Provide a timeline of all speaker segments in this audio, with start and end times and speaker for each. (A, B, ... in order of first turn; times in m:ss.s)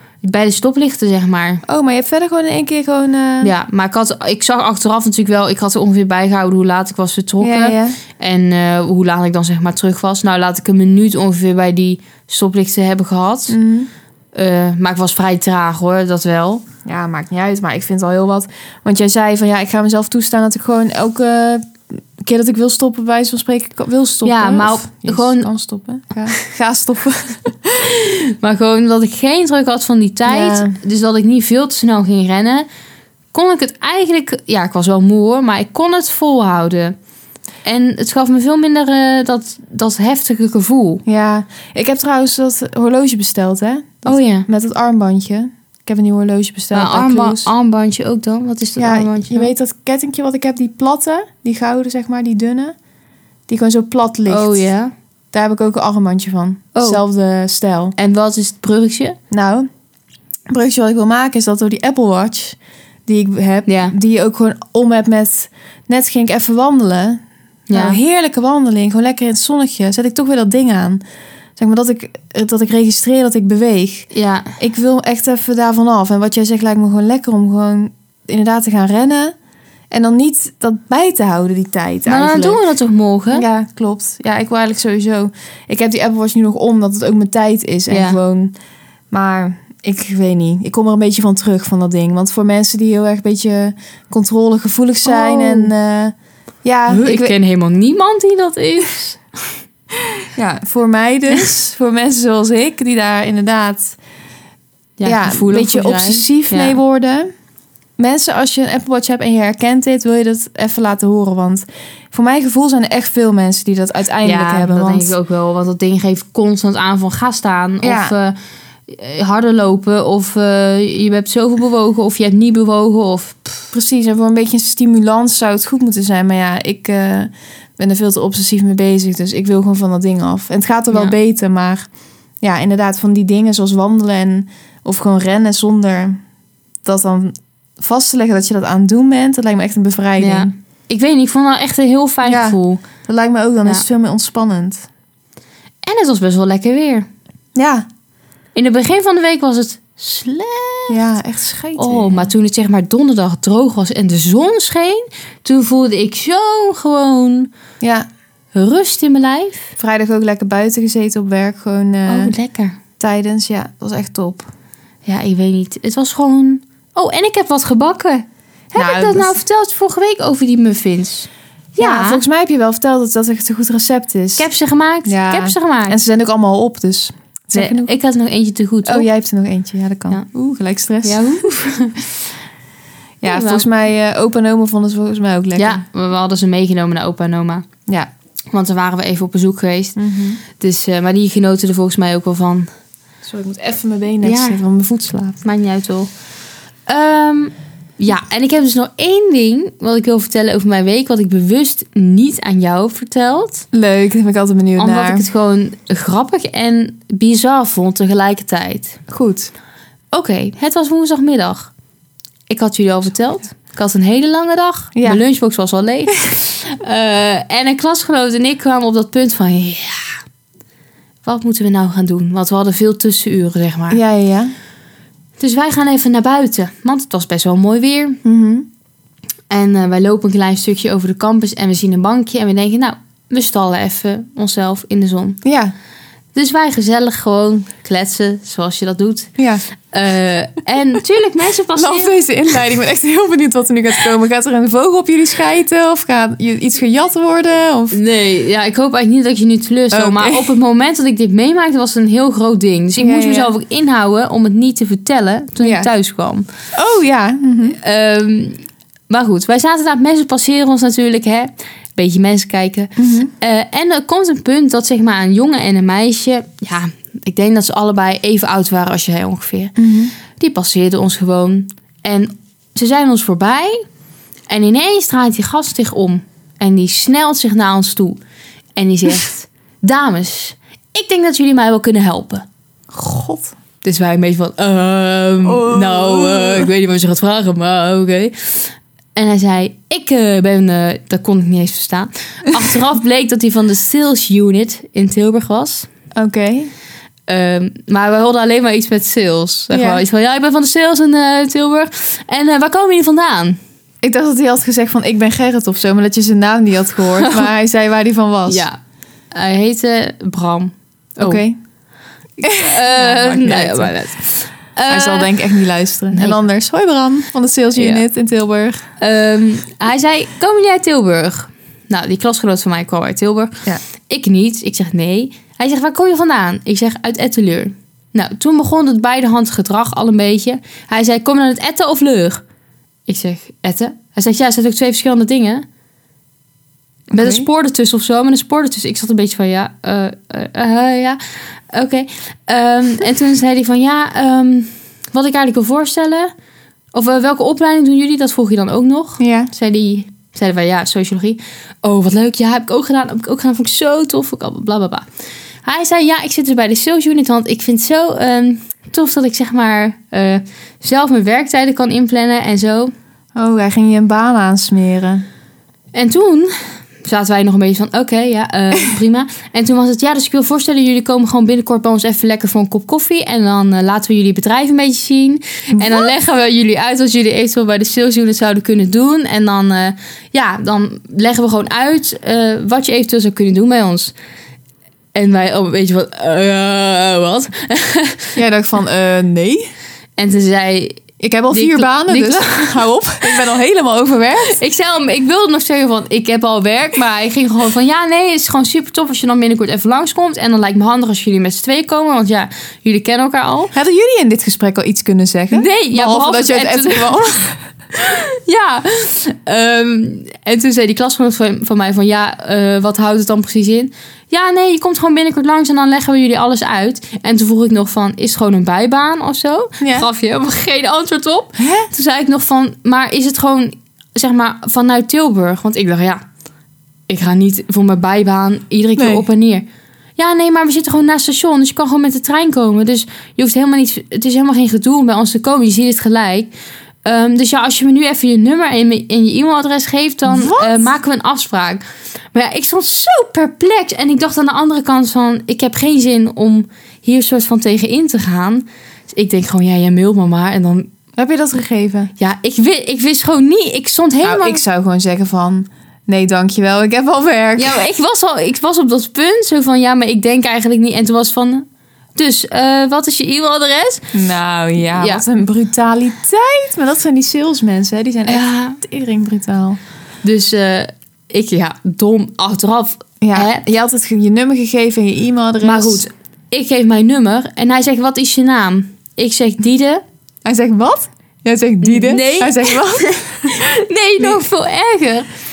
0:00.2-0:01.6 A
0:01.6-0:03.5 B
0:03.4-0:13.6 A
0:07.4-0:08.0 B
0:13.5-0:13.9 B
0:14.3-0:16.6 A
0:16.8-0:27.9 B
0:24.2-0:25.5 A
0:27.8-0:32.7 A
0:30.3-0:30.8 B
0:33.3-0:37.0 A
0:37.6-0:41.0 A
0:41.0-0:47.5 B
0:44.0-0:44.5 A
0:46.7-0:49.5 A
0:48.8-0:52.7 B
0:53.5-0:54.6 B
0:54.3-0:54.9 A
0:55.3-0:57.9 B
0:56.7-0:57.0 A
0:58.0-0:59.2 A
0:59.3-0:59.7 B
1:00.5-1:11.0 B
1:03.7-1:03.9 A
1:07.7-1:08.0 A
1:11.6-1:19.3 B
1:14.1-1:14.5 A
1:19.9-1:22.6 B
1:22.1-1:23.4 A
1:23.3-1:28.5 B
1:27.9-1:28.2 A
1:29.1-1:37.3 B
1:35.0-1:35.7 A
1:36.9-1:39.2 A
1:40.3-1:44.0 B
1:45.0-1:46.8 A
1:45.0-1:47.3 B
1:48.0-1:55.1 B
1:54.2-1:58.4 A
1:57.8-1:58.1 B
1:58.9-2:03.7 A
2:03.7-2:11.9 B
2:12.4-2:16.2 B
2:16.8-2:20.5 B
2:20.2-2:22.8 A
2:22.2-2:24.9 B
2:25.8-2:27.1 A
2:27.5-2:27.8 B
2:28.5-2:31.0 A
2:30.9-2:32.3 B
2:31.8-2:37.5 A
2:37.8-2:38.1 B
2:38.5-2:39.7 A
2:39.8-2:42.3 B
2:42.1-2:42.8 A
2:43.0-2:44.5 B
2:45.0-2:52.2 A
2:48.7-2:49.4 B
2:51.8-2:54.4 B
2:54.4-2:56.0 A
2:55.0-2:57.9 B
2:57.5-2:59.1 A
2:58.8-3:01.4 B
3:01.0-3:02.1 A
3:03.2-3:05.8 B
3:03.2-3:03.6 A
3:05.6-3:07.7 A
3:08.5-3:10.0 A
3:10.0-3:10.4 B
3:10.6-3:12.7 A
3:13.2-3:15.4 B
3:14.2-3:14.6 A
3:15.4-3:16.1 A
3:16.9-3:23.6 A
3:23.7-3:25.3 B
3:24.8-3:29.0 A
3:29.1-3:29.5 B
3:30.1-3:31.7 A
3:32.5-3:40.1 A
3:34.9-3:35.2 B
3:41.2-3:44.0 A
3:43.9-3:44.5 B
3:45.4-3:48.2 A
3:48.2-3:48.7 B
3:49.5-3:55.4 A
3:55.4-3:55.7 B
3:56.3-3:59.3 A
3:59.4-3:59.6 B
3:59.9-4:02.1 A
4:01.7-4:08.0 B
4:07.9-4:16.5 A
4:09.9-4:10.5 B
4:13.0-4:13.5 B
4:15.6-4:15.9 B
4:16.7-4:17.8 B
4:17.8-4:29.8 A
4:23.0-4:23.3 B
4:29.8-4:30.1 B
4:30.4-4:33.8 A
4:34.5-4:38.2 A
4:38.7-4:42.4 A
4:42.9-4:43.5 B
4:43.8-4:55.9 A
4:45.4-4:46.7 B
4:56.1-4:56.7 B
4:57.3-5:03.6 A
4:59.7-5:00.0 B
5:04.0-5:08.6 B
5:07.2-5:07.5 A
5:08.5-5:08.8 A
5:09.3-5:11.4 A
5:11.2-5:11.5 B
5:12.4-5:14.0 B
5:12.4-5:15.4 A
5:14.9-5:18.8 B
5:16.1-5:16.4 A
5:17.7-5:18.0 A
5:19.0-5:23.5 A
5:24.1-5:32.4 A
5:33.1-5:35.6 A
5:37.1-5:37.5 B
5:37.1-5:46.3 A
5:46.9-5:55.0 A
5:49.2-5:49.5 B
5:55.6-6:02.9 A
6:03.4-6:05.2 B
6:05.9-6:24.1 A
6:15.7-6:16.1 B
6:25.1-6:28.4 A
6:28.4-6:29.7 B
6:30.2-6:32.8 A
6:31.2-6:34.6 B
6:34.5-6:43.7 A
6:43.7-6:47.6 B
6:45.5-6:47.1 A
6:47.9-7:06.2 A
6:59.8-7:00.1 B
7:01.6-7:01.9 B
7:07.1-7:09.6 A
7:09.0-7:09.2 B
7:10.2-7:16.5 A
7:17.0-7:30.9 A
7:20.2-7:20.9 B
7:31.2-7:32.1 B
7:32.2-7:34.6 A
7:34.2-7:37.8 B
7:37.6-7:44.0 A
7:44.1-7:49.8 B
7:45.0-7:45.2 A
7:48.3-7:48.8 A
7:50.2-7:53.7 A
7:53.2-7:56.0 B
7:55.6-8:00.0 A
8:00.4-8:03.6 B
8:01.8-8:05.3 A